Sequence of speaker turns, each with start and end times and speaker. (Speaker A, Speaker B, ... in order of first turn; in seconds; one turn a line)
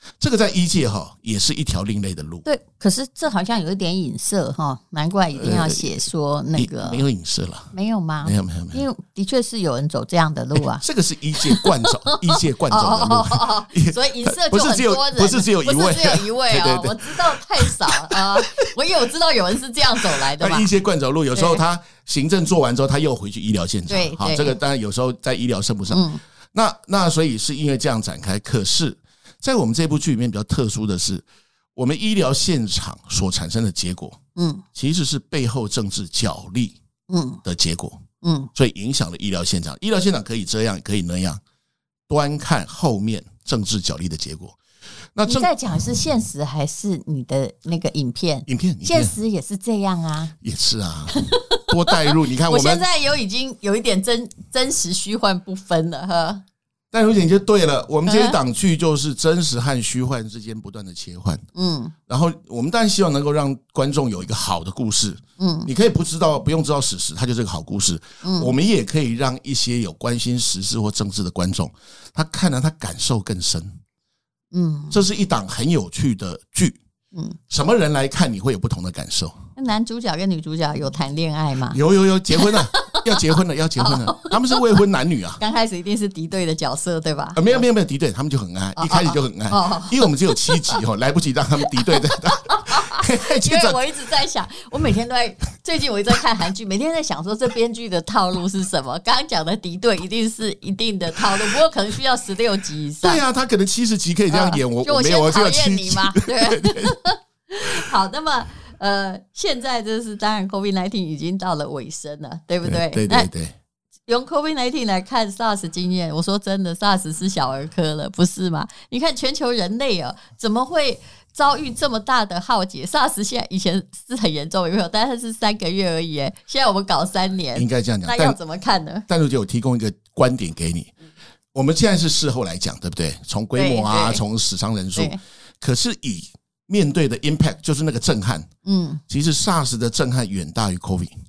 Speaker A: 0.2-2.5
Speaker B: 2.4-7.0
Speaker A: 5.3-5.9
Speaker A: 6.5-7.7
Speaker B: 7.7-10.8
Speaker A: 8.2-8.8
Speaker A: 10.6-18.6
Speaker B: 11.4-20.7
Speaker A: 20.0-34.2
Speaker B: 21.3-21.6
Speaker B: 23.9-24.6
Speaker B: 25.9-26.2
Speaker B: 34.4-34.6
Speaker A: 34.7-36.8
Speaker B: 37.1-37.4
Speaker A: 37.4-38.0
Speaker B: 38.2-38.5
Speaker A: 38.5-41.4
Speaker A: 42.1-44.6
Speaker A: 45.1-45.5
Speaker B: 45.2-50.3
Speaker A: 48.5-49.1
Speaker A: 50.4-52.9
Speaker B: 51.1-56.4
Speaker A: 56.9-61.4
Speaker B: 58.0-58.4
Speaker B: 61.5-61.9
Speaker A: 62.1-73.8
Speaker B: 65.4-65.7
Speaker B: 68.2-68.5
Speaker B: 74.5-75.0
Speaker A: 74.9-76.8
Speaker A: 77.5-79.4
Speaker B: 79.5-81.8
Speaker A: 81.7-85.4
Speaker B: 82.3-83.2
Speaker B: 83.8-84.6
Speaker B: 85.4-87.6
Speaker A: 87.3-93.8
Speaker B: 88.8-90.8
Speaker B: 91.8-103.2
Speaker A: 103.0-107.0
Speaker B: 104.3-113.3
Speaker A: 112.6-113.5
Speaker B: 114.1-129.0
Speaker A: 127.5-128.4
Speaker A: 129.1-130.9
Speaker A: 131.5-138.5
Speaker B: 133.6-134.2
Speaker B: 138.6-139.0
Speaker A: 139.1-141.1